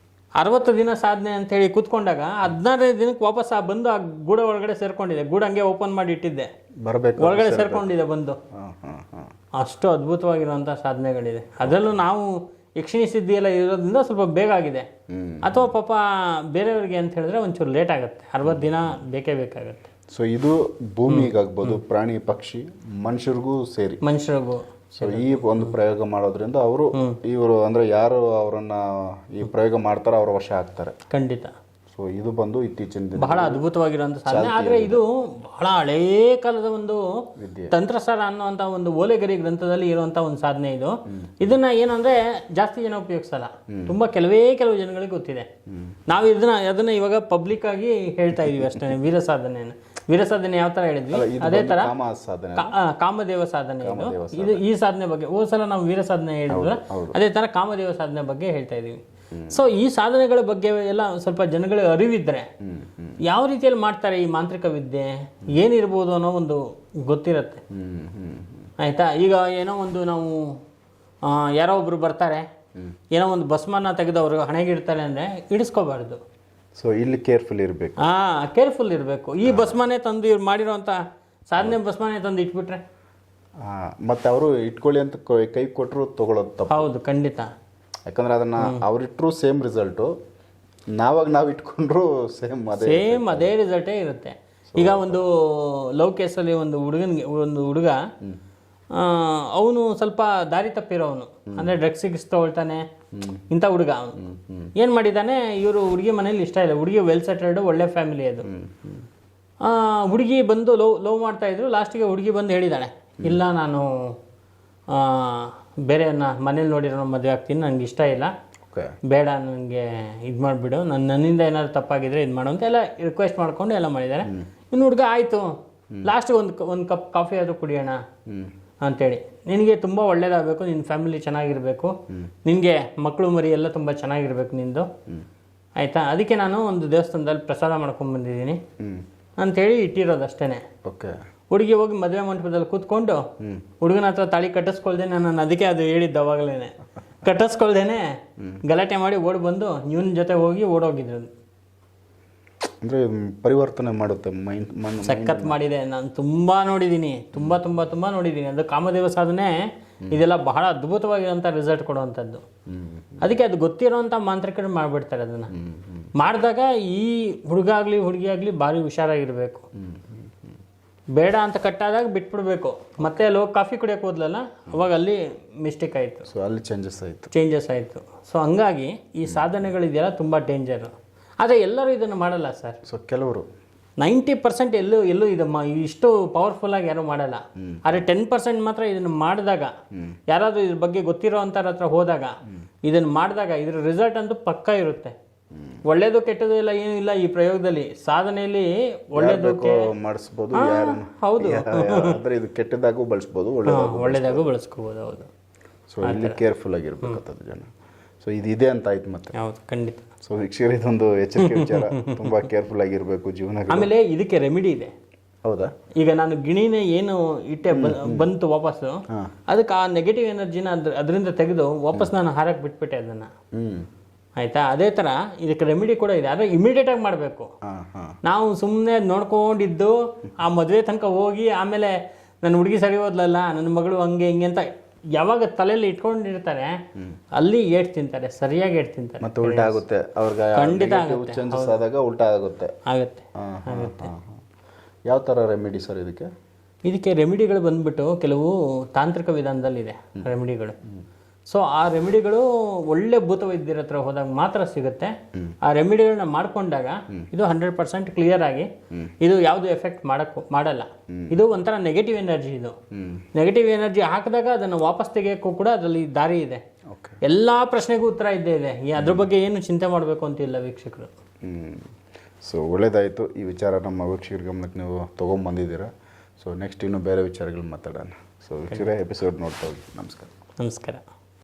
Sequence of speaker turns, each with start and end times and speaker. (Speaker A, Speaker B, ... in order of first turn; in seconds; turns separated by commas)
Speaker A: 0.4-6.5, Speaker B: 6.8-7.9, Speaker A: 7.2-8.4, Speaker B: 8.6-9.3, Speaker A: 9.6-14.8, Speaker B: 11.6-12.0, Speaker B: 15.1-15.7, Speaker A: 15.4-19.9, Speaker B: 18.4-18.8, Speaker B: 20.1-24.0, Speaker A: 21.1-21.8, Speaker A: 24.0-25.7, Speaker B: 24.9-30.9, Speaker A: 31.1-31.5, Speaker B: 31.9-33.6, Speaker A: 33.2-45.5, Speaker B: 34.3-35.0, Speaker B: 37.4-37.7, Speaker B: 41.1-41.5, Speaker B: 43.7-44.0, Speaker B: 45.7-46.0, Speaker A: 46.1-51.9, Speaker B: 48.4-48.9, Speaker B: 51.1-52.7, Speaker A: 52.6-62.5, Speaker B: 53.8-54.6, Speaker B: 56.5-57.2, Speaker B: 62.6-63.2, Speaker A: 63.2-67.6, Speaker B: 67.7-68.7, Speaker A: 68.8-70.5, Speaker A: 71.2-72.4, Speaker A: 73.1-76.2, Speaker B: 76.8-78.0, Speaker A: 78.0-81.0, Speaker B: 79.4-79.8, Speaker A: 81.5-82.8, Speaker B: 83.6-86.9, Speaker A: 86.7-87.5, Speaker B: 88.0-90.1, Speaker B: 90.9-93.5, Speaker A: 92.8-98.0, Speaker B: 94.7-95.2, Speaker A: 98.9-102.8, Speaker B: 103.1-103.4, Speaker A: 103.5-104.2, Speaker B: 104.2-104.7, Speaker A: 104.8-108.5, Speaker B: 108.4-109.0, Speaker A: 109.6-114.1, Speaker A: 114.9-118.3, Speaker A: 119.1-128.0, Speaker A: 128.8-134.9, Speaker A: 135.8-138.6, Speaker A: 139.4-140.6, Speaker B: 140.8-141.1, Speaker A: 141.5-143.2, Speaker A: 143.8-148.1, Speaker A: 148.6-151.3, Speaker B: 152.8-155.6, Speaker A: 155.0-159.5, Speaker B: 157.3-157.6, Speaker A: 160.1-162.4, Speaker B: 162.7-163.3, Speaker A: 163.2-165.5, Speaker B: 165.5-166.1, Speaker A: 166.2-169.6, Speaker B: 169.8-170.5, Speaker A: 171.2-176.3, Speaker B: 176.3-177.3, Speaker A: 177.3-182.8, Speaker B: 179.2-179.6, Speaker B: 182.8-183.5, Speaker A: 184.0-189.7, Speaker B: 187.6-188.0, Speaker A: 190.3-192.3, Speaker A: 192.8-195.1, Speaker B: 195.5-195.8, Speaker A: 195.8-199.9, Speaker B: 199.2-204.5, Speaker A: 200.5-202.2, Speaker A: 203.7-205.3, Speaker B: 205.9-207.7, Speaker A: 206.0-206.4, Speaker B: 208.2-209.3, Speaker A: 209.3-210.1, Speaker B: 210.2-213.9, Speaker A: 211.4-212.3, Speaker A: 213.7-214.9, Speaker B: 215.4-215.7, Speaker A: 216.0-223.3, Speaker B: 217.7-218.3, Speaker B: 223.6-223.9, Speaker A: 224.4-227.5, Speaker B: 227.7-228.2, Speaker A: 228.2-234.6, Speaker A: 235.2-236.8, Speaker A: 237.3-239.8, Speaker B: 239.2-242.7, Speaker A: 240.6-241.8, Speaker A: 242.8-244.1, Speaker B: 243.4-244.3, Speaker B: 245.1-246.3, Speaker A: 246.8-250.8, Speaker A: 251.5-262.8, Speaker B: 261.1-261.4, Speaker B: 262.9-263.2, Speaker A: 263.3-266.6, Speaker B: 266.9-267.2, Speaker A: 267.2-271.1, Speaker B: 269.0-269.3, Speaker B: 271.4-271.9, Speaker B: 272.4-280.3, Speaker A: 280.6-281.0